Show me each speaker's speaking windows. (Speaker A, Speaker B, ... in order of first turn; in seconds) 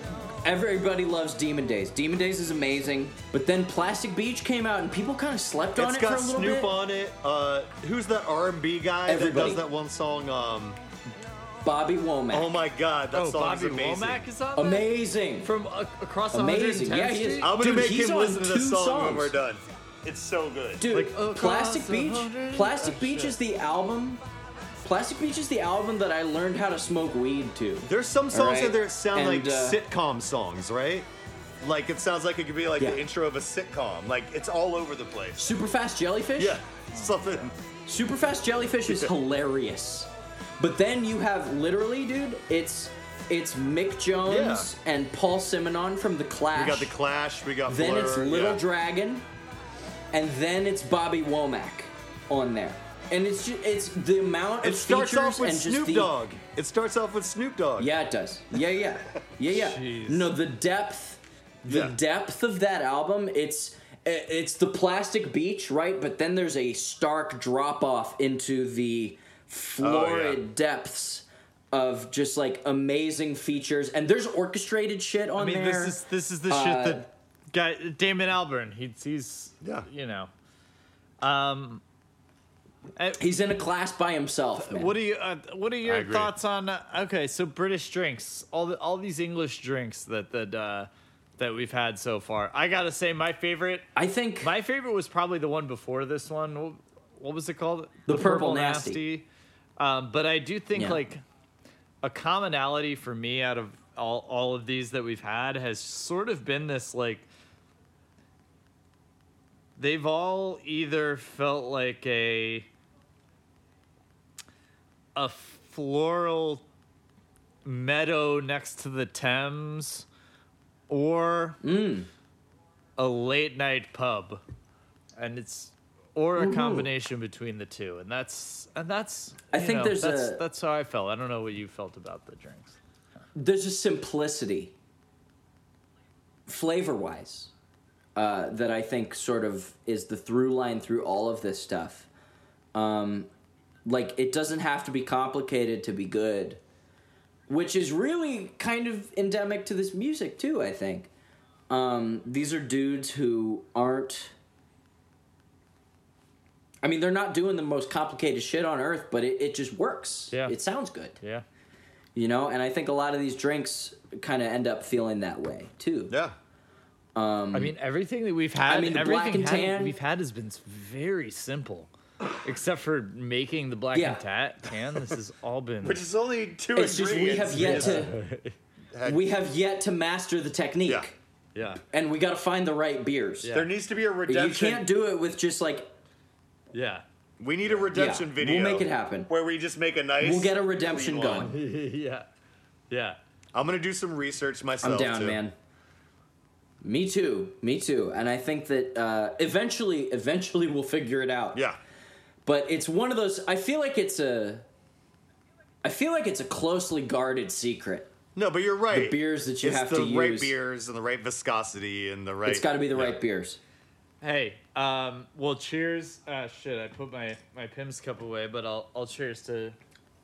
Speaker A: 0.4-6.7, 9.1-9.6, 11.6-12.5, 14.6-15.5, 16.3-19.3, 20.8-24.2, 24.8-29.8, 35.4-36.6, 37.9-46.9, 47.7-49.2, 50.1-56.1, 57.8-77.0, 83.2-84.9, 94.0-94.5, 98.1-99.0, 121.6-122.1, 126.4-126.9, 129.5-130.4, 133.3-134.7, 136.5-137.5, 138.2-142.1, 142.8-143.3, 143.9-146.6, 147.5-151.1, 151.7-154.3, 156.8-161.2, 162.2-166.2, 167.2-167.7, 168.7-169.9, 173.9-174.2, 176.7-178.2, 179.1-181.2, 181.9-183.6, 184.3-185.9, 187.9-189.3, 190.2-191.6, 194.8-195.5, 196.8-201.6, 202.5-204.7, 205.8-208.1, 208.9-210.5, 212.4-213.6
Speaker B: 5.8-10.8, 12.3-14.3, 17.4-20.9, 27.9-31.1, 31.6-35.5, 36.4-37.5, 44.2-44.7, 46.5-48.6, 54.6-57.9, 61.7-62.0, 69.8-70.4, 79.6-79.9, 85.8-86.3, 166.1-166.3, 175.8-178.1, 178.9-179.3, 183.5-184.9, 187.4-191.5, 193.5-195.4, 208.4-213.2
Speaker C: 13.1-14.9, 15.4-17.5, 20.9-23.4, 36.9-37.5, 59.5-60.3, 75.4-80.3, 81.2-81.8, 83.0-83.3, 84.6-93.9, 94.4-99.3, 99.8-101.2, 102.0-107.3, 109.8-112.7, 115.2-116.6, 117.7-120.1, 120.9-121.6, 123.0-124.4, 125.2-132.8, 160.3-160.6, 167.5-171.9, 172.4-176.0, 177.6-178.6, 181.6-181.8, 183.4-183.7, 186.7-187.1, 191.4-192.3, 192.9-193.2, 214.2-219.8